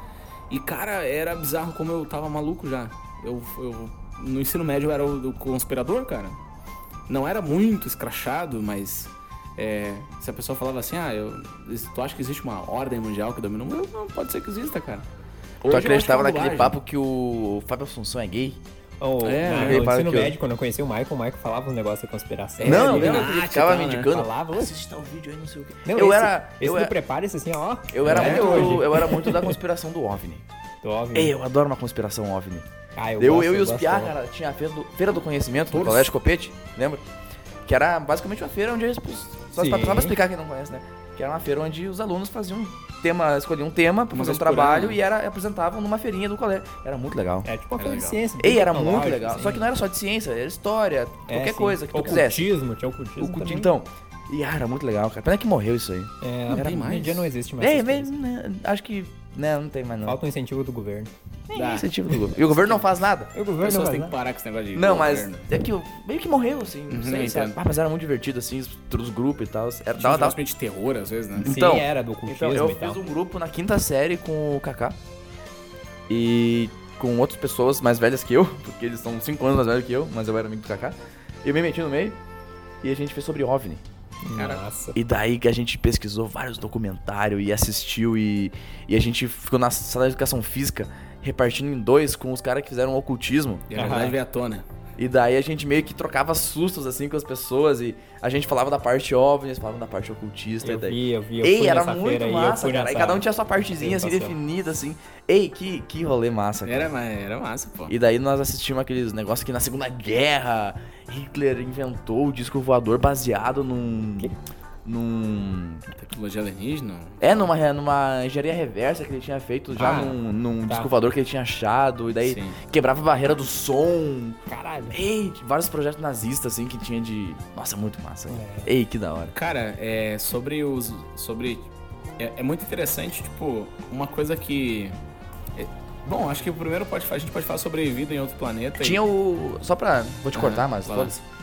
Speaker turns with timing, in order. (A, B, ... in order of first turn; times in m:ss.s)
0:00.5-0:06.4 A
0:07.1-0:15.0 A
0:15.6-0:16.8 A
0:15.7-0:18.6 B
0:19.0-0:23.3 C
0:19.2-0:19.8 A
0:19.5-0:20.4 B
0:22.6-0:24.1 A
0:22.6-0:26.9 B
0:24.1-0:24.7 C
0:25.8-0:29.6 C
0:27.9-0:30.4 B
0:28.1-0:28.8 A
0:30.8-0:31.3 C
0:31.2-0:37.0 B
0:33.0-0:34.1 C
0:35.7-0:36.1 A
0:37.7-0:47.5 B
0:39.6-0:40.2 C
0:44.1-0:45.0 A
0:47.4-0:49.7 C
0:47.8-0:48.2 A
0:48.4-0:52.5 B
0:51.3-0:53.7 C
0:53.2-0:56.8 B
0:56.2-0:58.1 C
0:56.5-0:57.3 A
0:57.6-1:00.2 B
1:00.1-1:01.1 C
1:01.5-1:03.3 B
1:01.5-1:02.9 A
1:03.3-1:04.2 C
1:03.6-1:05.5 A
1:04.7-1:10.4 B
1:06.9-1:07.6 A
1:10.0-1:11.6 A
1:11.4-1:15.0 B
1:11.4-1:13.0 C
1:16.1-1:22.2 B
1:22.8-1:23.8 B
1:24.2-1:25.0 C
1:24.4-1:24.6 A
1:25.0-1:33.7 B
1:33.7-1:34.7 A
1:33.8-1:34.2 C
1:35.0-1:46.9 B
1:40.6-1:44.4 C
1:46.6-1:48.0 A
1:47.9-1:54.3 B
1:54.8-1:55.9 B
1:55.9-1:57.5 A
1:57.2-2:09.3 B
1:59.8-2:00.9 C
2:02.2-2:02.6 A
2:04.5-2:05.0 C
2:08.3-2:08.7 C
2:09.3-2:15.0 A
2:15.6-2:19.0 A
2:18.8-2:21.2 B
2:20.3-2:21.2 A